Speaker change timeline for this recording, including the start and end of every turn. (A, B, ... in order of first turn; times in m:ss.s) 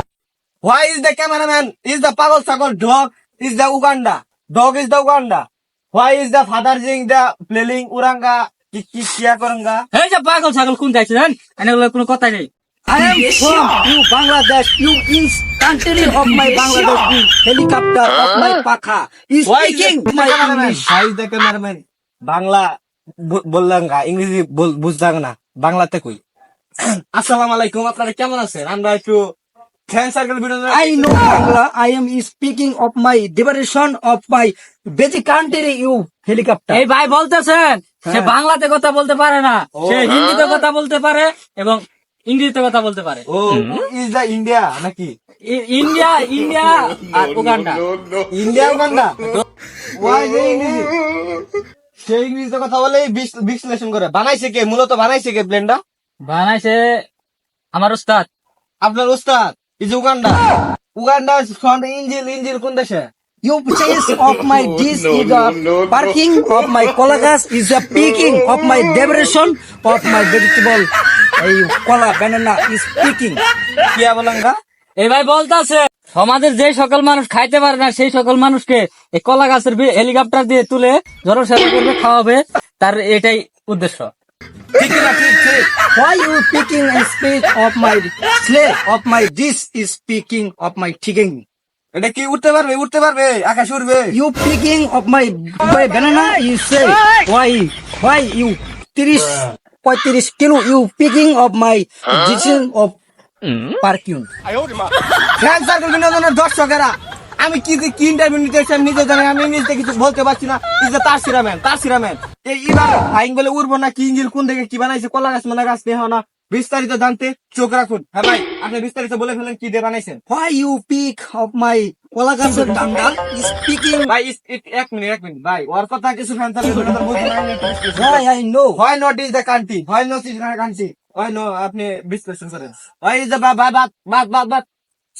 0:00.6-0:09.8 A
0:09.9-0:12.5 B
0:12.9-0:20.8 C
0:19.4-0:22.6 A
0:23.2-0:26.2 A
0:26.8-0:29.2 A
0:29.9-0:31.5 A
0:30.7-0:36.8 C
0:36.7-0:43.2 B
0:39.8-0:40.1 A
0:43.3-0:45.1 A
0:45.5-0:47.8 B
0:48.3-0:49.2 A
0:50.0-0:50.9 A
0:52.0-0:55.8 A
0:56.2-0:57.0 B
0:57.7-0:58.3 B
0:58.8-1:00.4 A
1:01.0-1:03.1 A
1:03.4-1:13.4 C
1:13.9-1:14.6 A
1:15.0-1:24.1 B
1:24.8-1:25.7 A
1:25.9-1:31.4 C
1:31.9-1:34.2 A
1:34.1-1:43.0 C
1:43.8-1:44.3 C
1:45.4-2:00.2 A
2:00.3-2:04.1 C
2:02.4-2:02.8 A
2:04.0-2:14.6 A
2:07.9-2:08.8 C